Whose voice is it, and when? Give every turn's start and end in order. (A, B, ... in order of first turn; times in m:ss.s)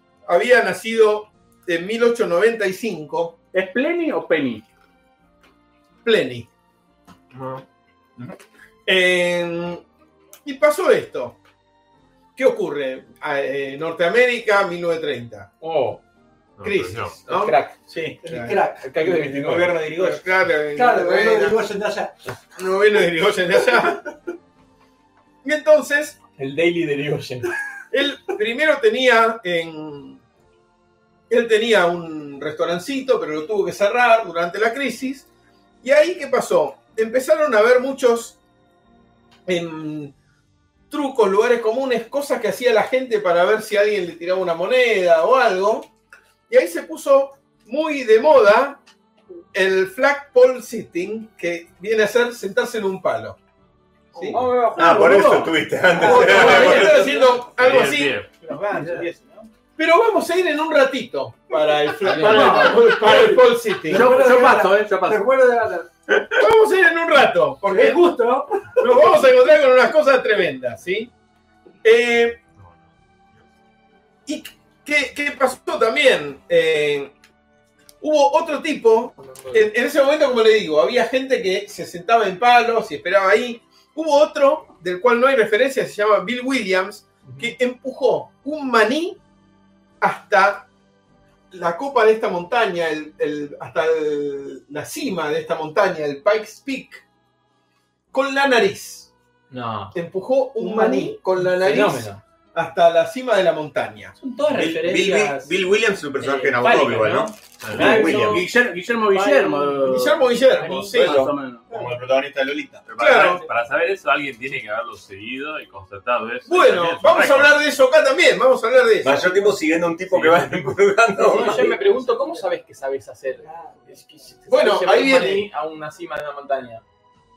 0:00.2-0:03.4 A
0:03.5-0:04.6 B
0:06.0-0:06.5 A
0:07.3-0:07.6 C
0:08.8-0:09.8 A
0:10.4-0:11.4 A
0:12.4-0:15.5 A
0:15.6-0:16.0 D
0:16.6-0:17.3 C
0:16.6-0:17.6 A
0:17.3-0:17.7 D
0:17.8-0:18.2 E
0:18.2-0:18.9 F
0:18.2-0:18.6 A
0:18.8-0:19.8 D
0:19.0-0:20.2 E
0:19.9-0:21.6 A
0:20.7-0:22.1 F
0:22.5-0:24.1 A
0:25.4-0:26.2 A
0:26.4-0:27.5 D
0:27.9-0:30.2 A
0:31.3-0:35.3 A
0:35.8-0:38.4 A
0:39.4-0:40.1 A
0:40.9-0:45.9 A
0:46.5-0:48.8 A
0:49.5-0:53.4 A
0:54.1-0:54.4 A
0:54.3-0:55.5 D
0:54.3-0:55.2 E
0:54.7-0:57.1 G
0:55.9-0:57.2 F
0:56.0-0:58.2 A
0:56.1-0:57.4 E
0:57.6-0:58.3 C
0:58.4-0:59.5 E
0:59.8-1:04.2 A
1:01.6-1:05.9 F
1:02.0-1:02.8 D
1:03.8-1:05.2 B
1:06.4-1:08.0 A
1:07.6-1:09.3 F
1:08.8-1:11.1 A
1:11.8-1:12.4 A
1:14.3-1:17.1 A
1:18.0-1:29.2 A
1:30.0-1:30.7 A
1:31.5-1:37.0 A
1:38.1-1:39.1 A
1:39.5-1:40.0 D
1:39.9-1:44.1 A
1:40.6-1:41.2 F
1:41.4-1:42.2 D
1:44.2-1:45.5 E
1:44.5-1:48.4 G
1:46.2-1:50.9 E
1:47.6-1:48.0 C
1:47.8-1:51.6 B
1:49.8-1:51.2 A
1:50.9-1:52.8 G
1:52.8-1:57.6 C
1:53.0-1:53.4 A
1:56.4-1:59.4 A
1:59.0-2:01.6 G
2:00.1-2:00.5 C
2:01.3-2:06.8 D
2:01.4-2:02.5 F
2:03.4-2:04.0 F
2:04.5-2:05.5 A